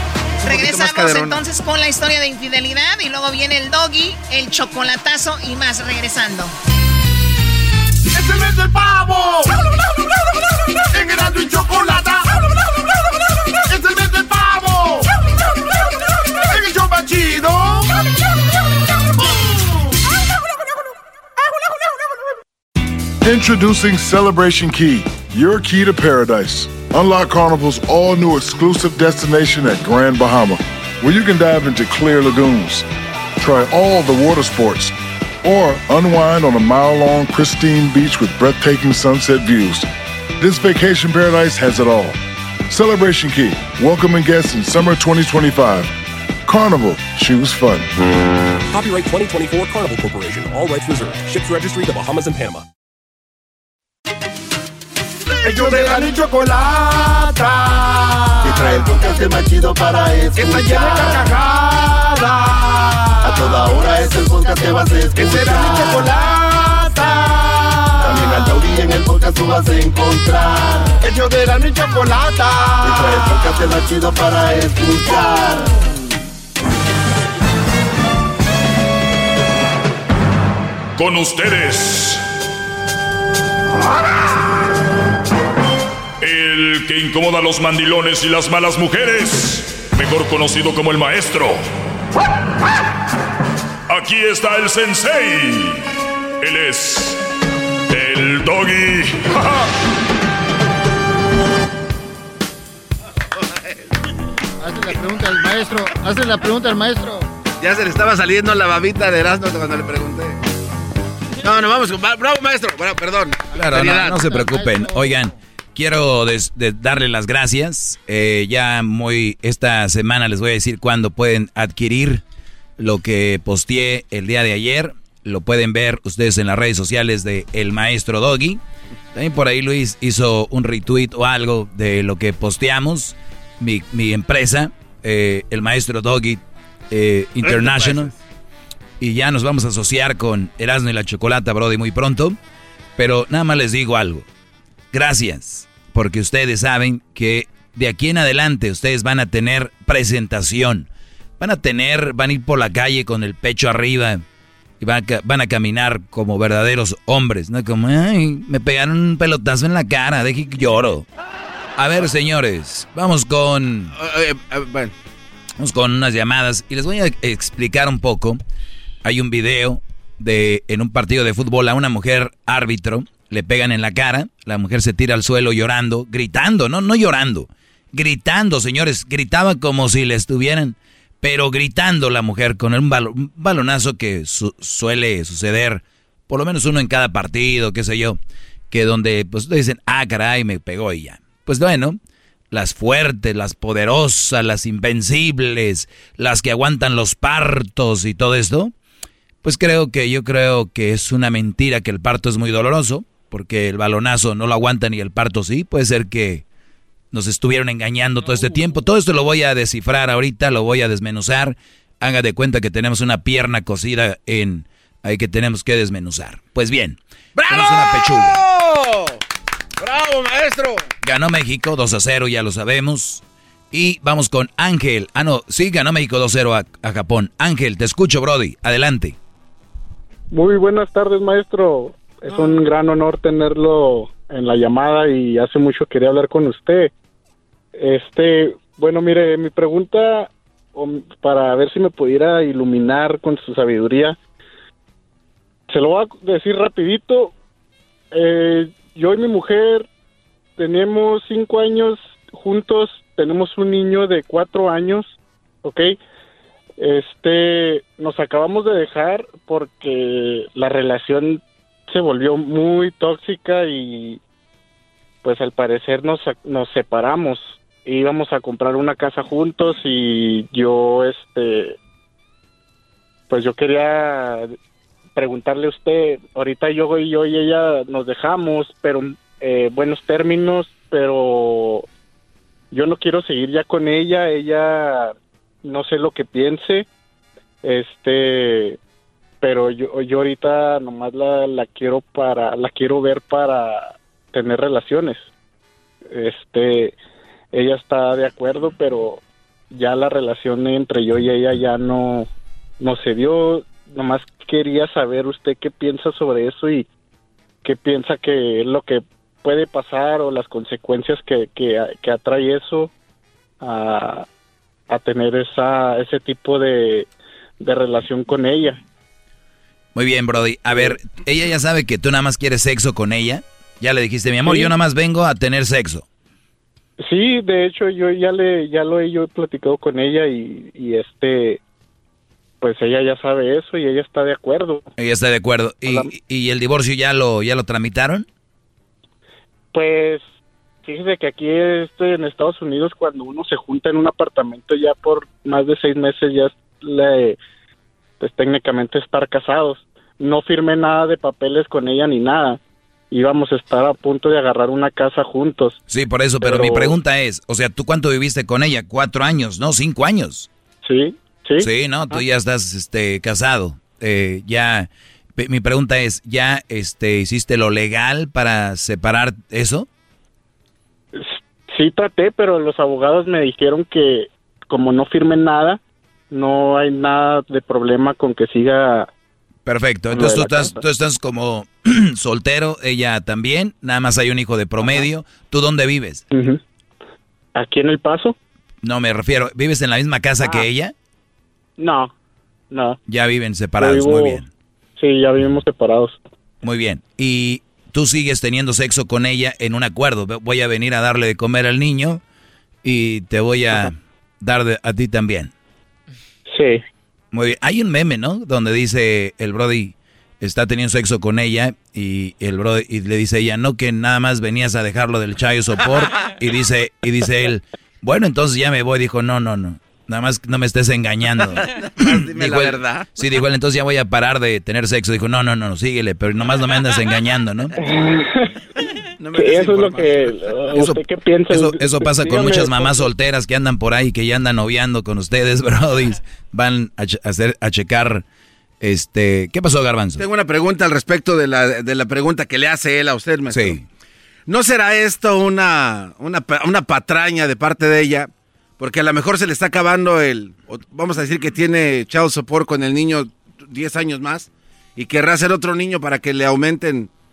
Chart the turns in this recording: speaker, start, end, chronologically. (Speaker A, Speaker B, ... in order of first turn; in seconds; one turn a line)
Speaker A: 0.4-1.4
Speaker B: 0.4-6.5
Speaker C: 8.1-9.5
Speaker C: 10.9-12.3
Speaker C: 13.7-15.1
Speaker C: 16.4-17.9
Speaker D: 23.2-32.8
Speaker D: 33.4-39.9
Speaker D: 40.4-42.2
Speaker D: 42.7-45.9
Speaker D: 46.5-47.9
Speaker E: 48.7-52.6
Speaker C: 55.4-75.7
Speaker E: 60.5-61.2
Speaker F: 81.0-82.2
Speaker F: 86.2-91.6
Speaker F: 93.9-95.8
Speaker F: 96.4-97.2
Speaker F: 97.9-99.7
Speaker A: 103.4-103.8
Speaker G: 104.6-107.3
Speaker A: 107.6-110.4
Speaker A: 111.4-114.5
Speaker H: 113.5-122.2
Speaker G: 114.2-115.2
Speaker H: 122.8-128.6
Speaker H: 129.1-138.1
Speaker A: 137.4-138.1
Speaker H: 139.0-142.4
Speaker H: 143.0-144.2
Speaker H: 144.9-150.9
Speaker H: 151.4-154.2
Speaker H: 154.8-161.1
Speaker H: 161.8-163.9
Speaker A: 163.9-164.9
Speaker H: 165.6-168.4
Speaker H: 169.0-188.2
Speaker H: 188.7-192.0
Speaker H: 192.5-198.7
Speaker H: 199.4-206.4
Speaker H: 207.1-218.4
Speaker A: 217.3-219.2
Speaker A: 219.8-220.8
Speaker H: 221.0-229.2
Speaker I: 230.3-236.9
Speaker I: 237.8-244.2
Speaker I: 245.7-247.3
Speaker I: 248.1-249.8
Speaker I: 250.6-255.9
Speaker I: 256.8-264.2
Speaker I: 265.2-271.8
Speaker I: 273.3-274.5
Speaker I: 275.1-281.9
Speaker I: 282.7-285.1
Speaker I: 285.6-286.9
Speaker I: 287.6-288.8
Speaker I: 289.4-295.2
Speaker I: 296.1-297.0
Speaker I: 297.5-299.2
Speaker I: 299.7-302.3
Speaker I: 302.8-306.9
Speaker I: 307.6-312.9
Speaker I: 313.6-314.2
Speaker I: 314.9-317.1
Speaker I: 317.6-318.8
Speaker H: 319.9-326.0
Speaker I: 327.0-331.6
Speaker I: 332.6-334.9
Speaker H: 335.0-338.2
Speaker I: 339.7-340.2
Speaker I: 340.8-347.4
Speaker I: 348.2-352.6
Speaker I: 353.1-355.8
Speaker H: 355.9-360.5
Speaker I: 356.4-356.9
Speaker I: 360.8-362.2
Speaker H: 361.6-369.9
Speaker I: 371.1-375.8
Speaker I: 376.3-379.1
Speaker H: 379.6-386.2
Speaker I: 380.1-380.8
Speaker I: 386.3-386.6
Speaker I: 387.6-388.3
Speaker H: 388.8-390.9
Speaker I: 391.8-392.1
Speaker I: 392.7-393.0
Speaker H: 393.1-394.5
Speaker I: 393.8-394.4
Speaker I: 395.0-396.2
Speaker H: 396.6-402.2
Speaker H: 402.8-405.5
Speaker I: 406.5-406.8
Speaker H: 407.3-427.7
Speaker A: 421.7-423.2
Speaker I: 427.8-428.5
Speaker A: 429.2-430.3
Speaker I: 429.3-432.9
Speaker H: 430.7-438.2
Speaker H: 438.8-440.2
Speaker A: 440.2-443.8
Speaker H: 443.5-443.8
Speaker A: 444.5-457.1